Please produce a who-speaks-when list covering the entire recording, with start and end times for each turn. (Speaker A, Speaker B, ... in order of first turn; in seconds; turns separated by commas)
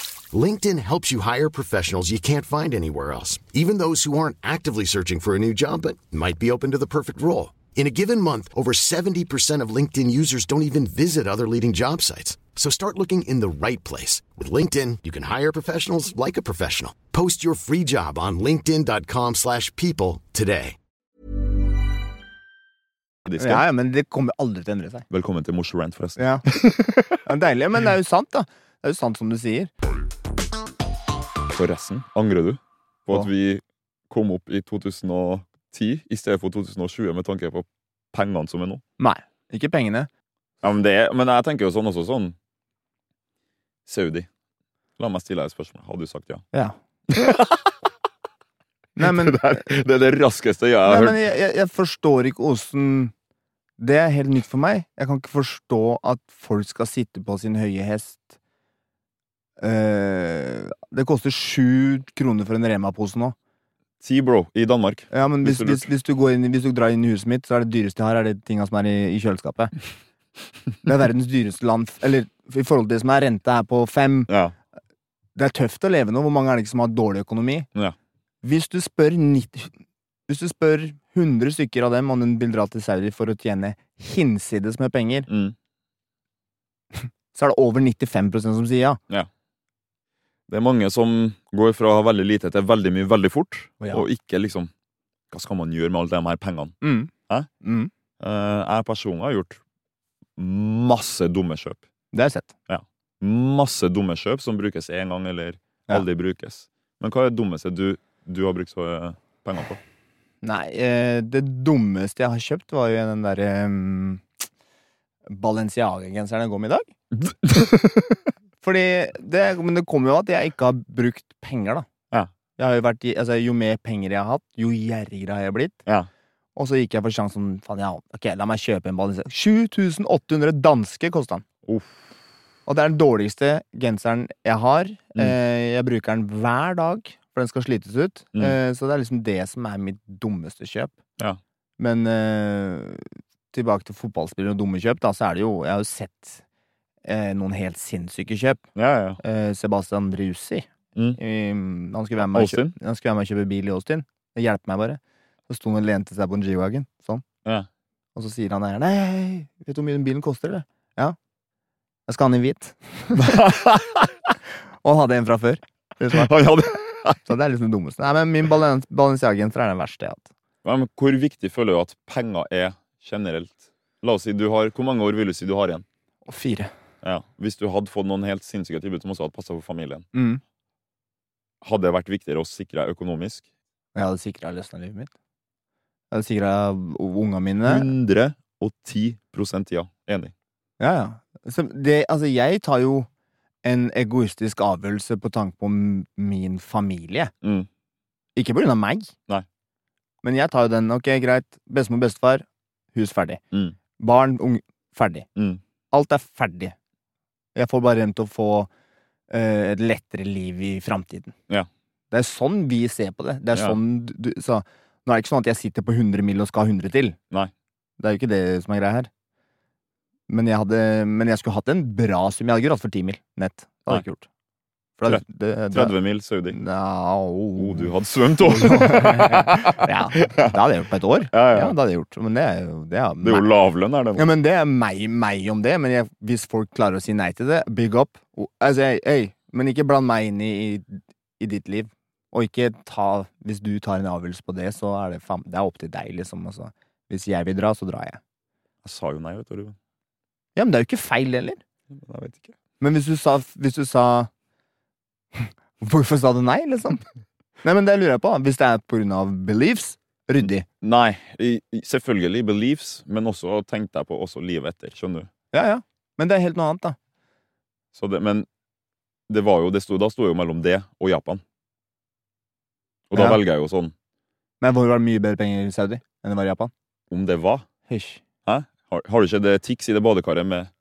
Speaker A: 0.3-20.8, Speaker B: 23.2-23.6, Speaker C: 23.4-25.1, Speaker B: 25.1-27.1, Speaker C: 26.2-26.5, Speaker C: 27.1-29.7, Speaker B: 31.5-38.8, Speaker C: 39.0-40.1, Speaker B: 40.6-42.4, Speaker B: 43.9-44.3, Speaker B: 45.0-46.5, Speaker B: 47.1-47.7, Speaker C: 49.0-49.7, Speaker B: 49.0-51.2, Speaker C: 50.9-53.1, Speaker C: 53.8-58.4, Speaker C: 59.6-63.4, Speaker B: 64.0-65.9, Speaker C: 65.1-69.7, Speaker C: 70.9-74.3, Speaker B: 74.3-74.5, Speaker C: 75.4-77.7, Speaker C: 78.4-79.8, Speaker C: 80.3-85.3, Speaker B: 85.3-85.6, Speaker C: 86.9-89.0, Speaker B: 90.5-94.7, Speaker C: 93.8-94.1, Speaker B: 95.3-96.8, Speaker C: 96.8-97.9, Speaker B: 98.2-99.6, Speaker B: 100.4-101.8, Speaker C: 102.1-102.5, Speaker B: 102.7-109.8, Speaker C: 110.4-114.2, Speaker C: 115.3-116.9, Speaker B: 117.1-118.2, Speaker C: 118.6-121.9, Speaker C: 122.6-125.8, Speaker C: 126.6-131.4, Speaker B: 131.7-132.1, Speaker C: 132.7-141.0, Speaker C: 141.8-146.4, Speaker C: 147.1-148.6, Speaker B: 148.8-149.2, Speaker C: 149.2-157.2, Speaker B: 152.3-152.8, Speaker C: 158.2-161.2, Speaker C: 162.1-163.4, Speaker B: 163.2-164.1, Speaker C: 164.8-166.3, Speaker B: 166.1-167.2, Speaker C: 167.2-170.3, Speaker B: 170.6-175.8, Speaker C: 176.3-176.7, Speaker B: 177.0-180.1, Speaker C: 180.1-180.4, Speaker B: 181.6-183.4, Speaker C: 183.9-185.1, Speaker C: 186.1-187.9, Speaker B: 187.6-190.3, Speaker C: 190.8-193.1, Speaker C: 193.6-197.3, Speaker B: 197.4-197.7, Speaker C: 198.4-199.1, Speaker C: 200.2-203.4, Speaker B: 203.5-203.8, Speaker C: 204.0-205.3, Speaker B: 205.4-205.6, Speaker C: 205.9-206.8, Speaker C: 207.6-208.7, Speaker C: 209.3-211.3, Speaker C: 212.1-217.2, Speaker C: 218.0-219.1, Speaker C: 220.3-224.3, Speaker C: 225.0-225.9, Speaker B: 225.1-226.6, Speaker C: 226.5-233.5, Speaker B: 227.6-230.5, Speaker B: 231.3-231.8, Speaker B: 233.2-234.2, Speaker C: 234.2-248.2, Speaker B: 248.8-249.8, Speaker C: 250.6-251.6, Speaker B: 251.9-252.5, Speaker C: 252.8-254.3, Speaker C: 255.3-257.1, Speaker C: 257.6-260.7, Speaker B: 260.4-265.3, Speaker C: 265.5-267.0, Speaker B: 267.9-268.5, Speaker B: 269.3-271.4, Speaker B: 273.1-273.9, Speaker C: 274.6-276.7, Speaker B: 277.1-277.7, Speaker C: 277.9-278.2, Speaker B: 278.4-280.7